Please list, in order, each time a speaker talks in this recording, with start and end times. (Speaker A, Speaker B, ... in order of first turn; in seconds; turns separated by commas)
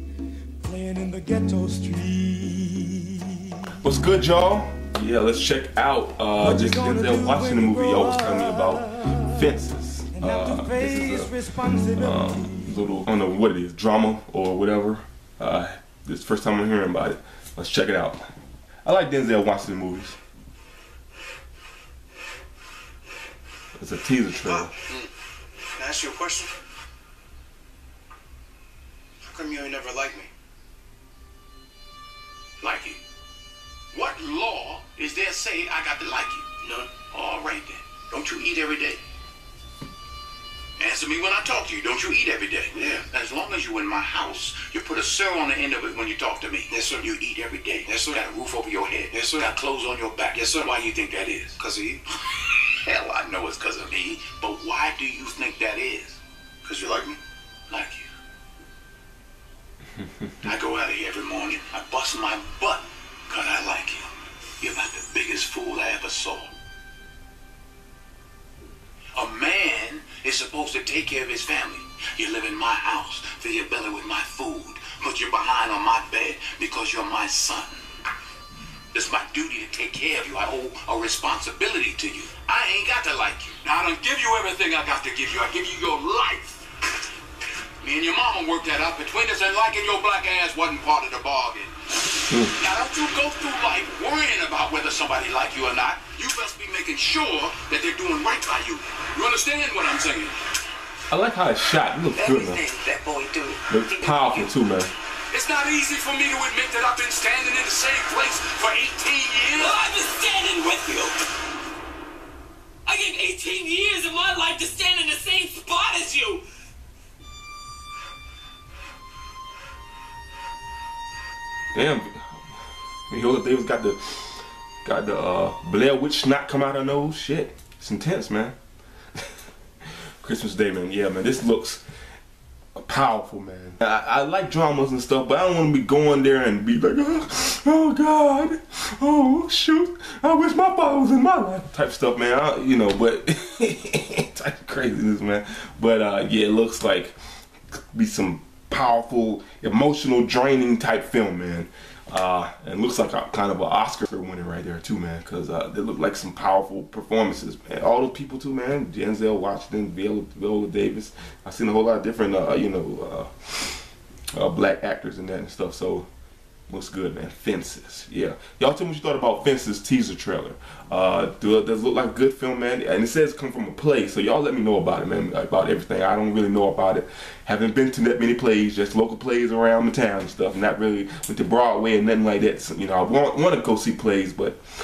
Speaker A: 0.6-3.7, Speaker B: 3.8-11.3, Speaker A: 6.4-9.2, Speaker A: 10.1-12.8, Speaker B: 11.9-18.2, Speaker B: 18.8-20.2, Speaker B: 23.8-24.7, Speaker C: 24.4-24.7, Speaker C: 25.8-26.5, Speaker C: 29.2-30.3, Speaker D: 32.6-33.0, Speaker D: 33.9-36.5, Speaker C: 36.6-36.9, Speaker D: 37.1-39.0, Speaker D: 40.8-51.6, Speaker C: 42.7-43.0, Speaker C: 46.7-47.0, Speaker C: 47.9-48.2, Speaker C: 49.1-49.5, Speaker C: 50.3-50.7, Speaker C: 51.6-52.0, Speaker D: 52.4-56.2, Speaker C: 56.6-57.2, Speaker D: 57.7-58.1, Speaker B: 60.0-60.5, Speaker D: 60.4-66.5, Speaker D: 69.1-77.8, Speaker D: 78.9-86.6, Speaker D: 87.8-91.7, Speaker B: 92.3-92.5, Speaker D: 92.5-100.4, Speaker B: 101.1-102.7, Speaker E: 102.1-104.5, Speaker B: 103.7-104.9, Speaker D: 105.3-109.8, Speaker E: 109.5-111.2, Speaker E: 112.8-116.4, Speaker B: 121.7-128.6, Speaker B: 130.2-131.8, Speaker B: 132.8-147.2, Speaker B: 147.9-166.1, Speaker B: 166.7-184.6